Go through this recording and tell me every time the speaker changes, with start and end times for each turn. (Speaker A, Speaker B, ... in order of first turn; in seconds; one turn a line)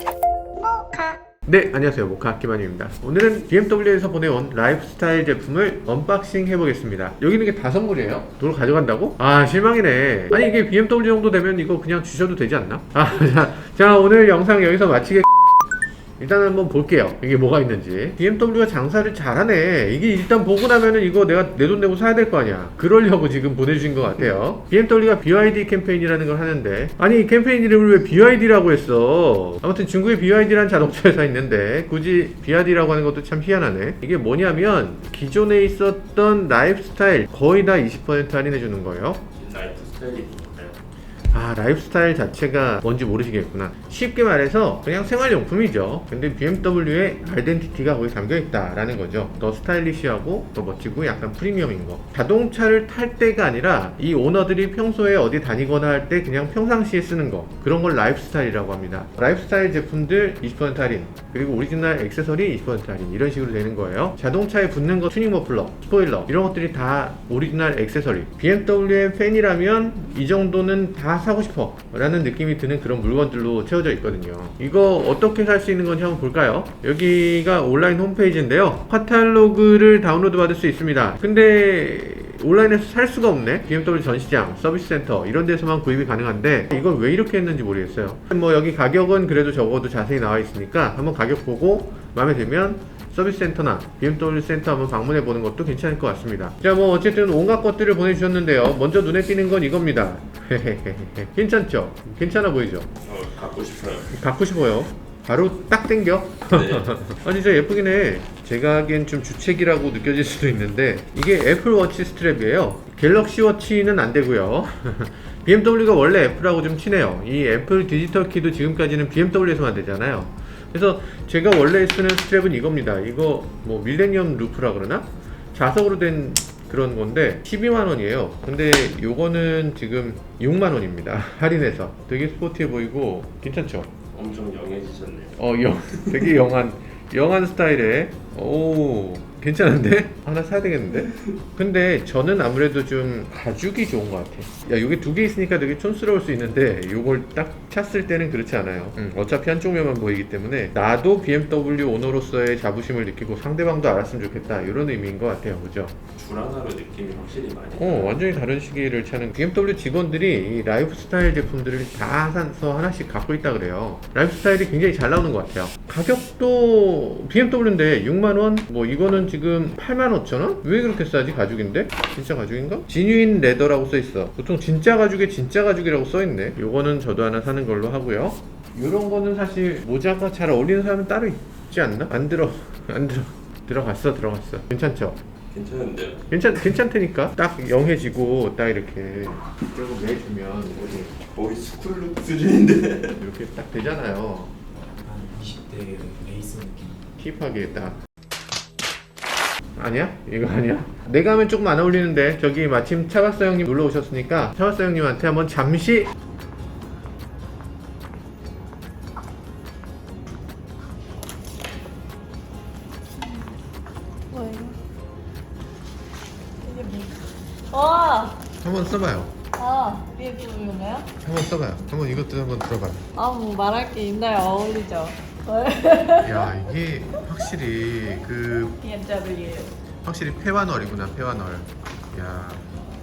Speaker A: 1.5-15.3
Speaker A: 16.2-39.2
Speaker B: 39.4-40.8
Speaker A: 41.3-102.9
Speaker B: 103.0-104.1
Speaker A: 104.1-133.9
Speaker B: 106.5-107.0
Speaker B: 134.1-135.4
Speaker A: 135.4-156.0
Speaker B: 156.2-158.3
Speaker A: 157.8-185.2
Speaker B: 185.5-186.2
Speaker A: 186.3-191.1
Speaker B: 190.8-193.2
Speaker A: 193.2-194.5
Speaker C: 194.9-197.0
Speaker A: 197.2-198.0
Speaker A: 199.8-206.1
Speaker D: 213.2-213.5
Speaker D: 214.3-214.8
Speaker D: 216.7-218.4
Speaker A: 218.6-219.3
Speaker D: 219.6-221.1
Speaker A: 221.2-223.1
Speaker D: 223.2-226.6
Speaker A: 226.2-228.8
Speaker D: 228.8-229.7
Speaker A: 230.0-232.7